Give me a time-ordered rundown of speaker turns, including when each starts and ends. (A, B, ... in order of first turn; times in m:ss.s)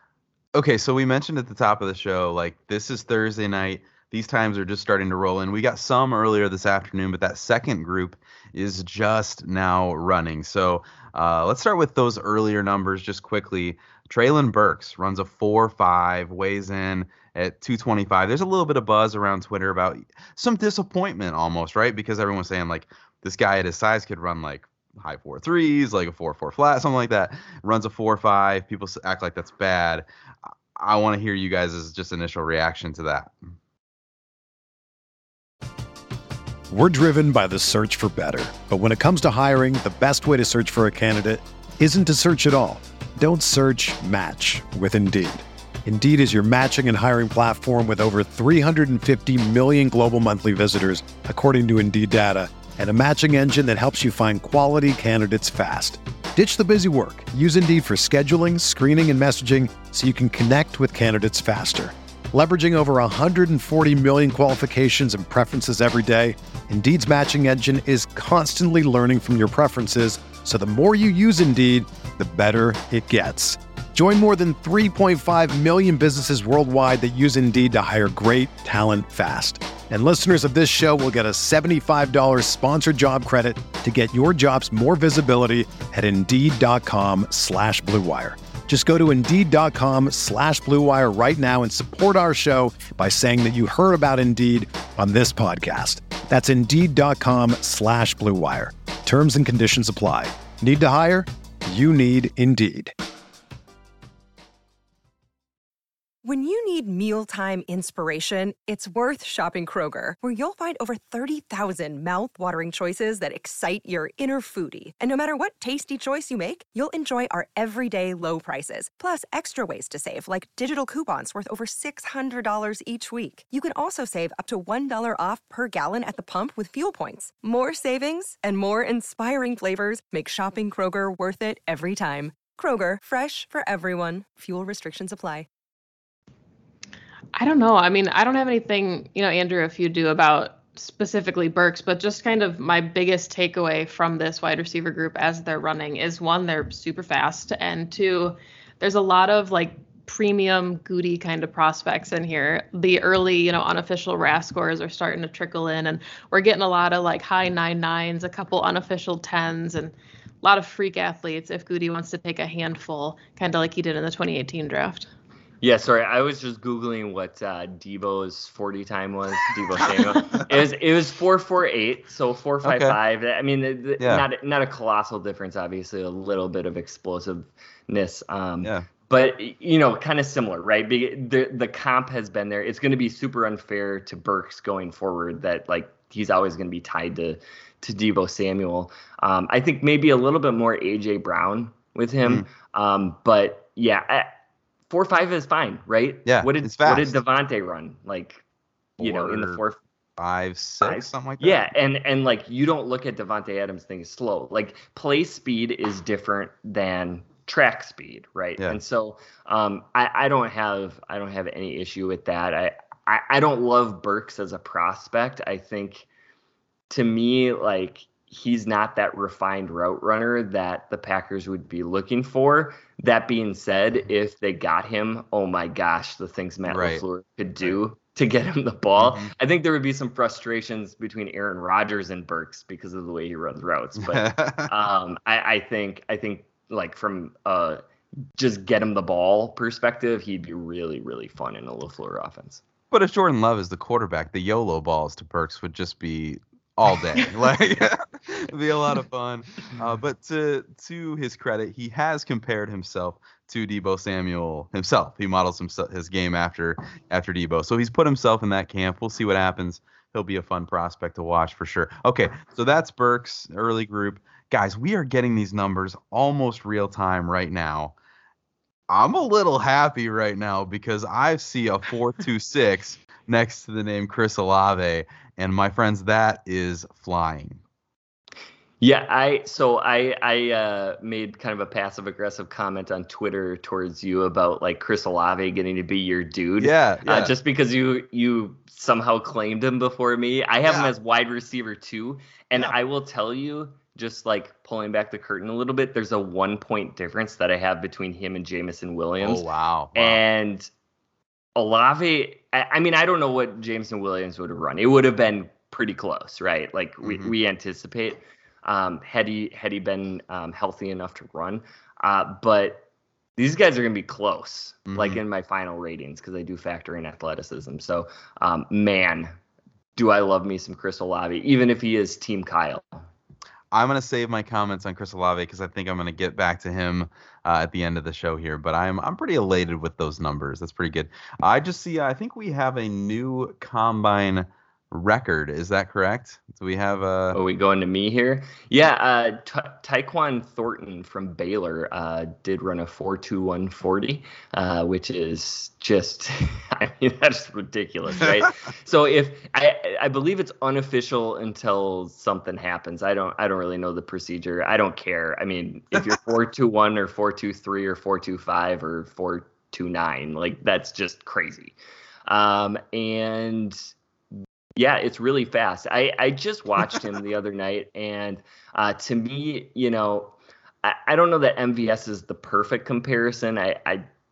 0:00.5-0:30.0 A
0:30.8-0:33.4 A
0:36.7-1:42.9 B
1:46.2-2:15.5 C
2:17.3-2:45.1 D
2:45.6-3:14.3 E
2:52.6-2:53.0 A
2:54.0-2:54.2 A
2:58.6-2:58.9 A
3:14.9-3:18.4 E
3:16.2-3:17.2 A
3:19.0-3:19.6 A
3:19.0-3:19.8 E
3:20.2-3:21.6 A
3:20.8-3:36.1 E
3:36.9-3:57.8 E
3:46.7-3:47.0 A
3:49.0-3:49.3 A
3:54.0-3:54.7 A
3:58.4-4:02.6 E
4:02.9-4:27.9 A
4:28.9-4:37.6 A
4:38.8-4:59.4 E
4:46.6-4:47.3 A
4:50.6-4:50.9 A
4:59.2-5:00.2 A
4:59.9-5:00.7 E
5:01.6-5:12.8 E
5:07.0-5:07.3 A
5:13.4-5:19.3 E
5:14.9-5:15.2 A
5:20.0-5:23.0 E
5:23.7-5:37.4 A
5:37.3-6:01.8 E
6:02.3-6:03.8 E
6:04.8-6:14.0 E